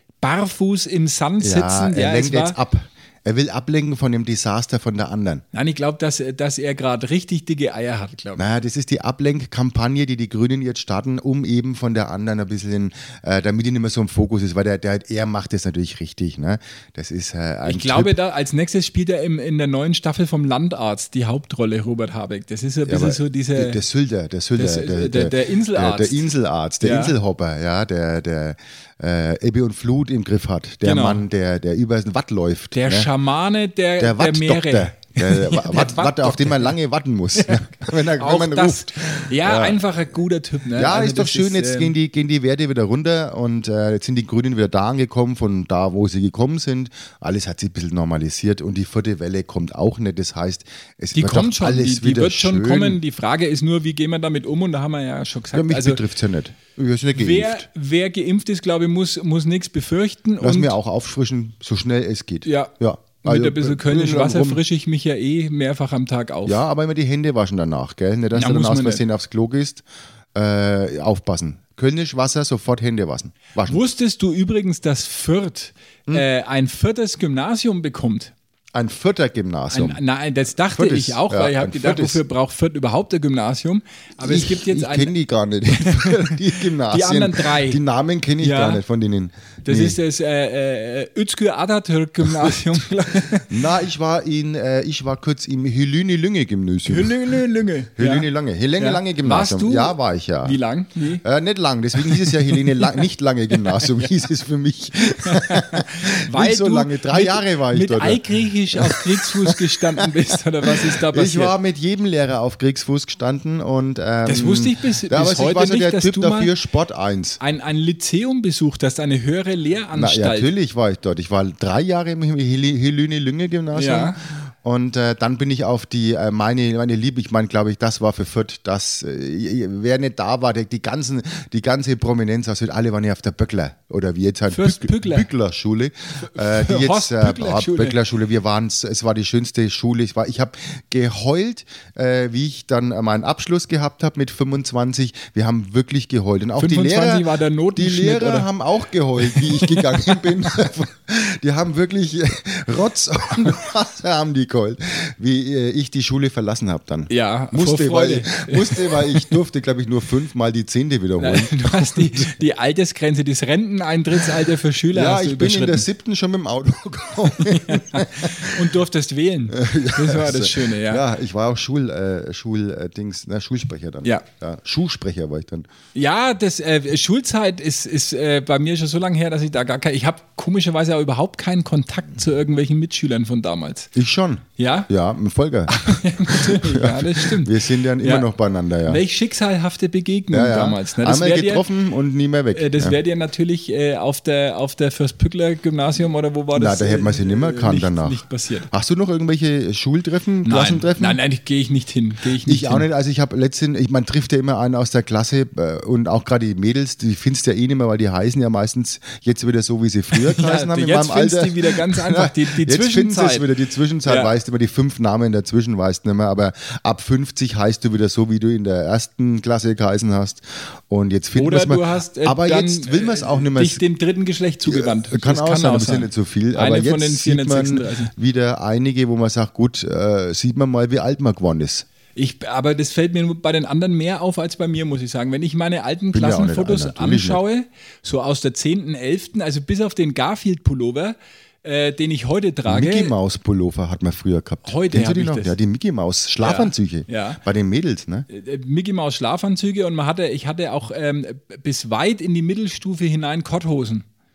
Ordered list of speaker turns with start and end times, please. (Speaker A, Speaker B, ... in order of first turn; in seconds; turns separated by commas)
Speaker A: 0.2-2.5, Speaker B: 1.4-5.4, Speaker A: 5.5-8.4, Speaker B: 8.4-18.1, Speaker A: 17.6-23.8, Speaker B: 22.9-33.1, Speaker A: 24.6-26.2, Speaker A: 26.8-27.1, Speaker A: 30.8-31.2, Speaker A: 32.7-36.7, Speaker B: 34.0-39.8, Speaker A: 37.4-41.9, Speaker B: 40.7-53.0, Speaker A: 51.1-56.0, Speaker B: 55.5-57.6, Speaker A: 57.1-60.7, Speaker B: 60.4-64.6, Speaker A: 62.4-66.6, Speaker B: 66.5-73.8, Speaker A: 68.3-69.0, Speaker A: 73.6-78.3, Speaker B: 78.7-80.0, Speaker A: 79.7-85.1, Speaker B: 80.8-82.2, Speaker B: 84.2-90.0, Speaker A: 85.8-87.8, Speaker A: 88.4-88.8, Speaker A: 89.7-93.5, Speaker B: 93.5-97.2, Speaker A: 96.8-98.3, Speaker B: 98.0-100.6, Speaker A: 98.8-101.2, Speaker B: 101.2-108.2, Speaker A: 102.0-103.0, Speaker A: 105.2-111.5, Speaker B: 108.8-110.1, Speaker B: 110.7-117.4, Speaker A: 114.2-116.5, Speaker A: 117.4-120.5, Speaker B: 119.9-162.3, Speaker A: 123.7-124.2, Speaker A: 134.5-135.3, Speaker A: 136.2-138.0, Speaker A: 146.6-148.5, Speaker A: 149.2-150.5, Speaker A: 157.1-159.3, Speaker A: 161.2-165.8, Speaker B: 164.9-168.7, Speaker A: 167.4-171.0, Speaker B: 169.5-175.7, Speaker A: 175.9-183.9, Speaker B: 183.9-189.0, Speaker A: 184.6-184.9, Speaker A: 185.7-188.3, Speaker A: 188.9-191.6, Speaker B: 190.3-193.0, Speaker A: 192.5-198.7, Speaker B: 196.5-201.2, Speaker A: 200.4-202.8, Speaker B: 202.4-223.8, Speaker A: 210.1-213.5, Speaker A: 214.0-214.3, Speaker A: 221.3-228.1, Speaker B: 224.6-231.8, Speaker A: 232.2-243.1, Speaker B: 236.1-237.4, Speaker B: 242.7-248.2, Speaker A: 244.6-245.5, Speaker A: 246.4-247.4, Speaker A: 248.3-254.0